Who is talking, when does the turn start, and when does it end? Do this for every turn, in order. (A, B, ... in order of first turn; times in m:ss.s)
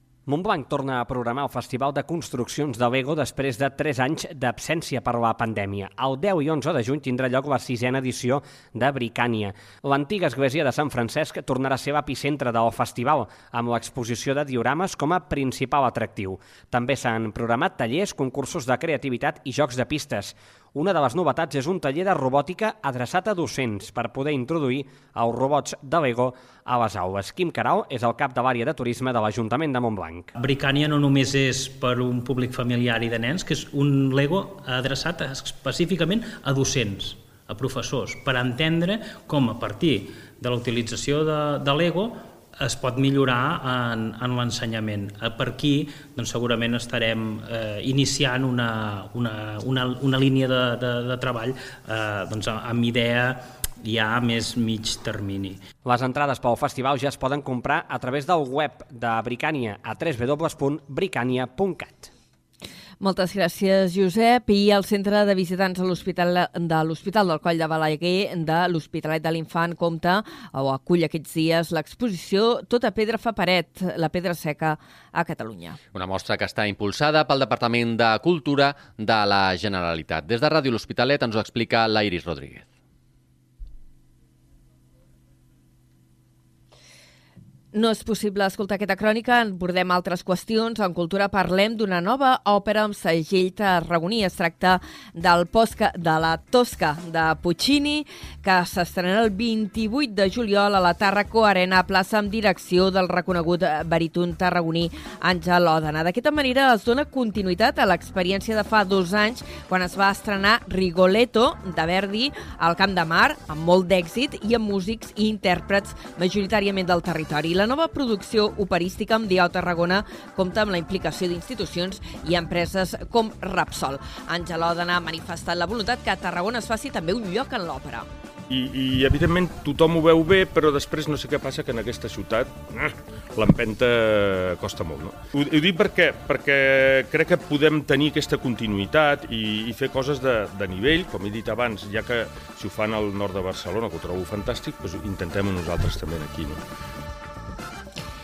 0:00.3-0:30.3 A
0:30.3-0:55.6 B
0:55.8-1:02.1 A
1:03.0-1:15.8 C
1:15.9-1:22.6 D
1:27.7-2:08.1 C
2:08.5-2:26.6 E